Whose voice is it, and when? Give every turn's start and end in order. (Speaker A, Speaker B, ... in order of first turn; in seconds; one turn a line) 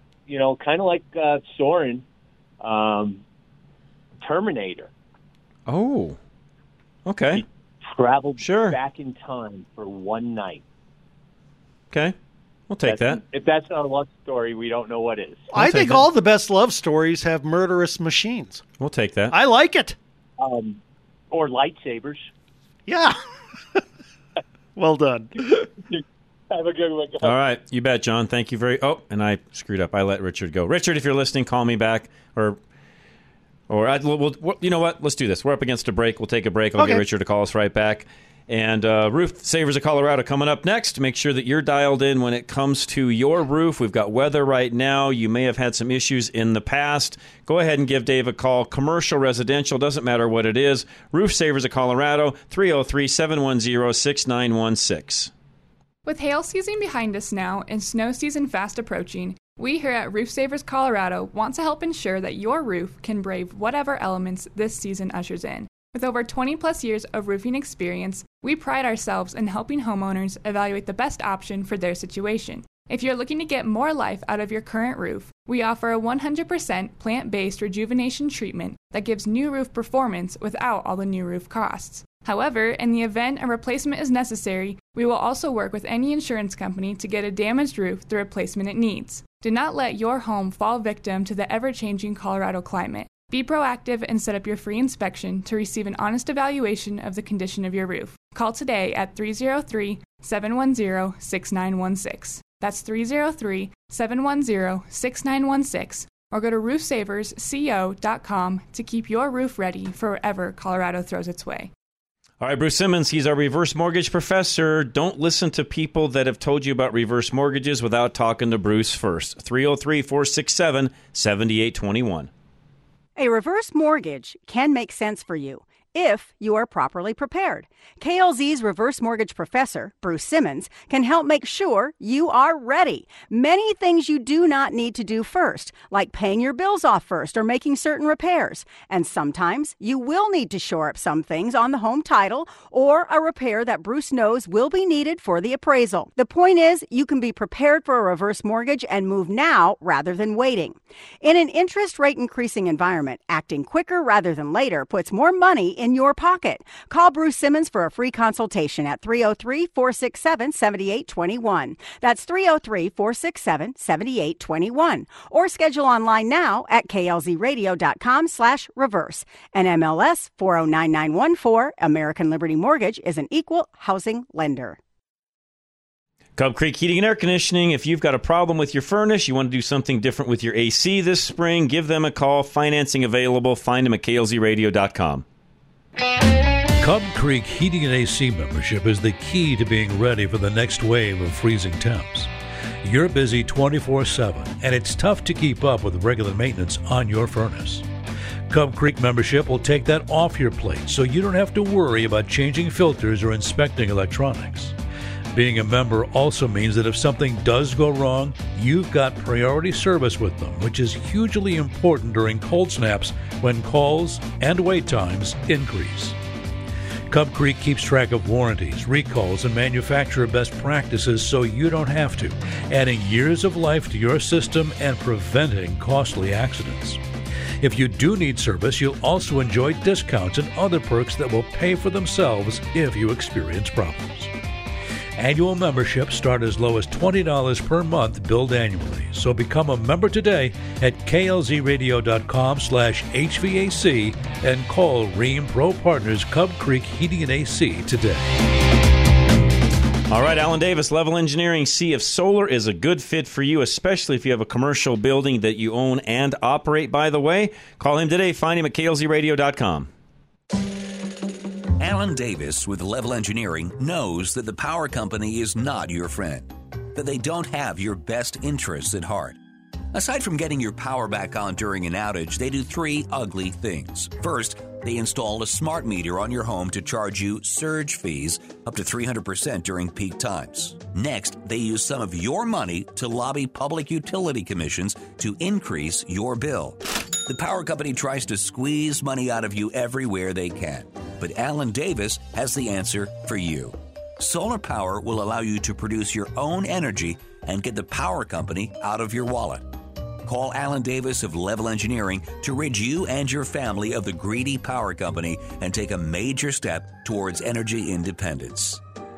Speaker A: 0.3-2.0
Speaker A: 2.6-3.2
Speaker A: 4.2-4.9
Speaker B: 5.7-6.2
Speaker B: 7.1-7.5
Speaker A: 7.3-10.6
Speaker B: 8.4-8.8
Speaker B: 12.7-13.2
Speaker A: 12.8-15.5
Speaker C: 15.5-18.6
Speaker B: 15.6-16.1
Speaker B: 18.8-19.4
Speaker C: 19.3-20.0
Speaker A: 20.4-20.8
Speaker A: 21.3-22.3
Speaker C: 22.9-23.2
Speaker C: 24.8-25.7
Speaker A: 26.6-27.1
Speaker B: 27.2-32.6
Speaker B: 33.7-55.3
Speaker C: 36.8-37.0
Speaker D: 56.1-111.7
Speaker B: 112.4-122.3
Speaker E: 123.2-174.8
Speaker B: 176.4-185.2
Speaker F: 186.8-192.3
Speaker F: 192.8-197.8
Speaker F: 198.5-204.8
Speaker F: 205.3-216.2
Speaker F: 217.1-227.0
Speaker F: 227.6-234.3
Speaker F: 235.2-248.3
Speaker B: 250.1-259.9
Speaker G: 261.8-269.4
Speaker G: 269.9-299.7
Speaker G: 300.2-308.8